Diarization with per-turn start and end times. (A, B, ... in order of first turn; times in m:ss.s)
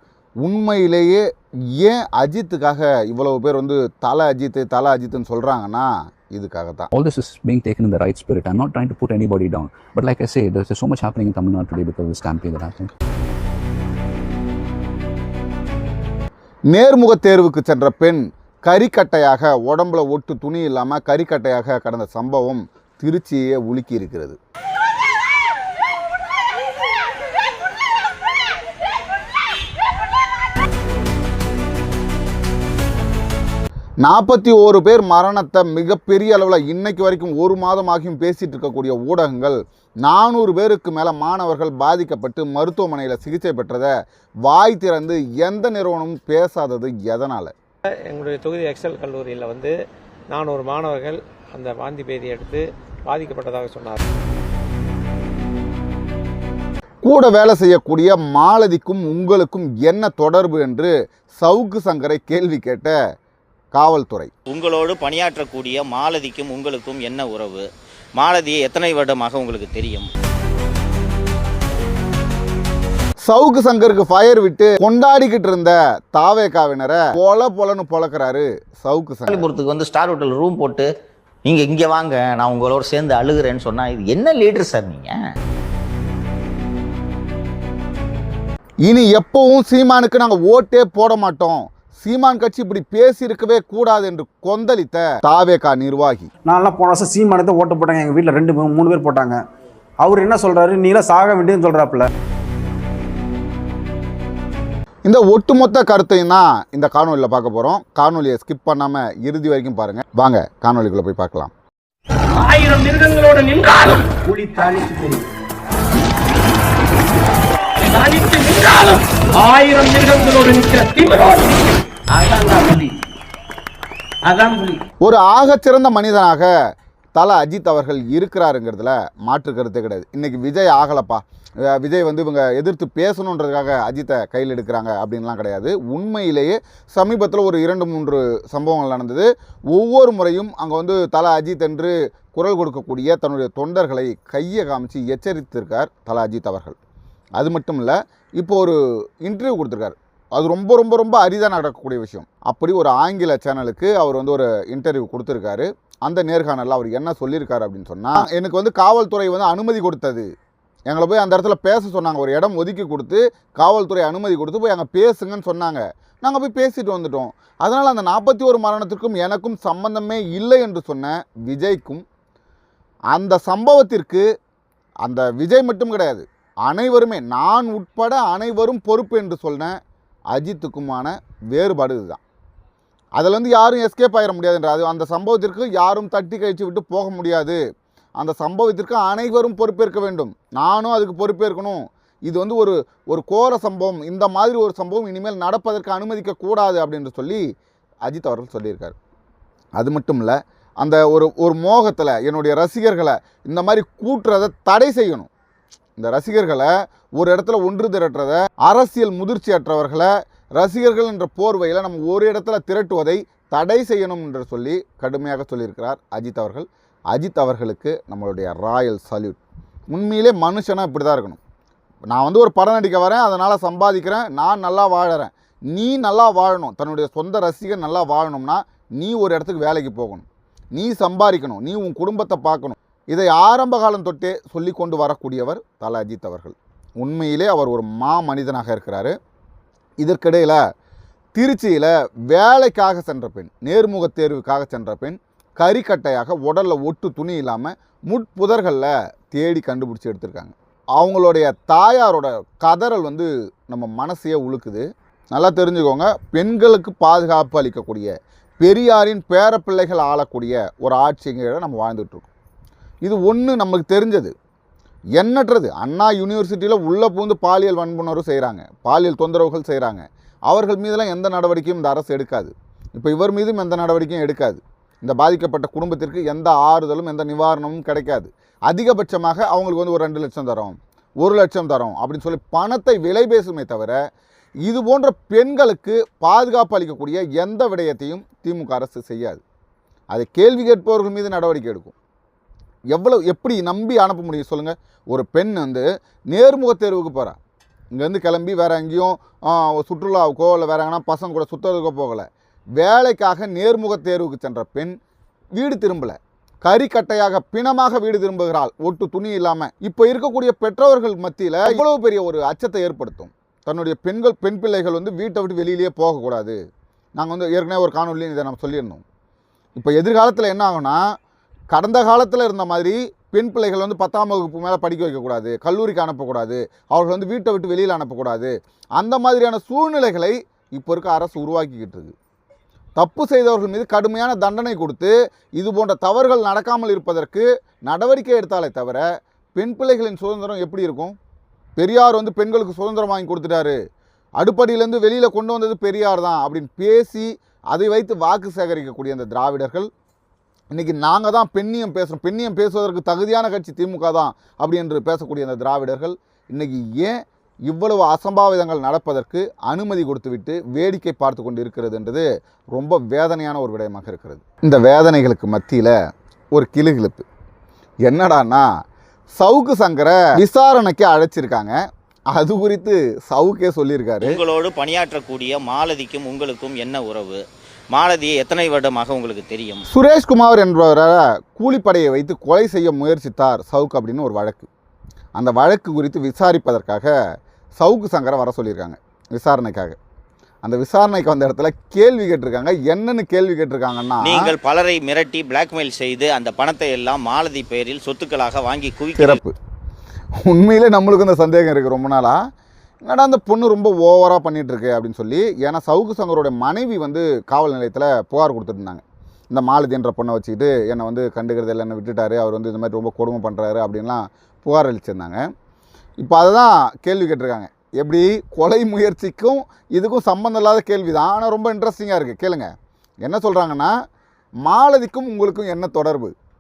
0:00.4-0:01.2 A
0:01.8-0:06.9 A
0:06.9-0:12.9 B
0:16.7-0:24.4 A
0:34.0-0:43.9 A
0:44.5-0:47.5 A
0:48.1-0:49.7 C
0:50.3-0:54.0 C
0:57.0-1:02.9 A
1:03.7-1:04.3 A
1:04.5-1:07.6 D
1:08.2-1:10.1 D
1:13.2-1:19.5 A
1:19.3-1:20.8 E
1:21.4-1:25.1 E
1:28.9-1:36.3 A
1:36.5-1:39.4 F
1:40.0-1:42.1 F
1:45.1-1:51.5 A
1:52.4-1:55.2 G
1:57.8-2:03.0 G
2:04.2-2:04.8 G
2:05.0-2:06.5 A
2:07.2-2:26.8 A
2:27.4-2:40.3 A
2:40.9-2:52.0 A
2:53.1-2:54.2 A
2:55.0-2:59.7 A
3:00.3-3:02.2 A
3:03.2-3:07.6 A
3:08.2-3:17.4 A
3:18.0-3:19.0 A
3:19.8-3:25.3 A
3:26.0-3:39.4 A
3:39.9-3:41.4 A
3:42.1-3:59.1 A
4:00.0-4:00.6 A
4:01.4-4:22.3 A
4:23.0-4:24.3 A
4:25.2-4:44.0 A
4:44.6-4:49.4 A
4:50.1-4:51.9 A
4:52.9-4:57.4 A
4:57.9-5:02.2 A
5:02.8-5:04.9 A
5:05.6-5:16.6 A
5:17.2-5:19.0 A
5:19.8-5:21.0 A
5:21.7-5:32.1 A
5:33.0-5:39.0 A
5:39.6-5:41.1 A
5:41.8-5:43.8 A
5:44.4-5:49.9 A
5:50.7-6:05.9 A
6:06.6-6:07.2 A
6:08.1-6:08.6 A
6:09.4-6:11.7 A
6:12.3-6:14.4 A
6:14.2-6:17.4 D
6:17.9-6:19.8 D
6:19.9-6:24.7 A
6:25.4-6:27.1 A
6:27.8-6:30.0 A
6:30.6-6:34.4 A
6:34.2-6:39.4 D
6:39.2-6:39.5 A
6:40.4-6:42.4 A
6:43.0-6:55.4 A
6:56.2-7:02.7 A
7:03.2-7:03.9 A
7:04.6-7:06.3 A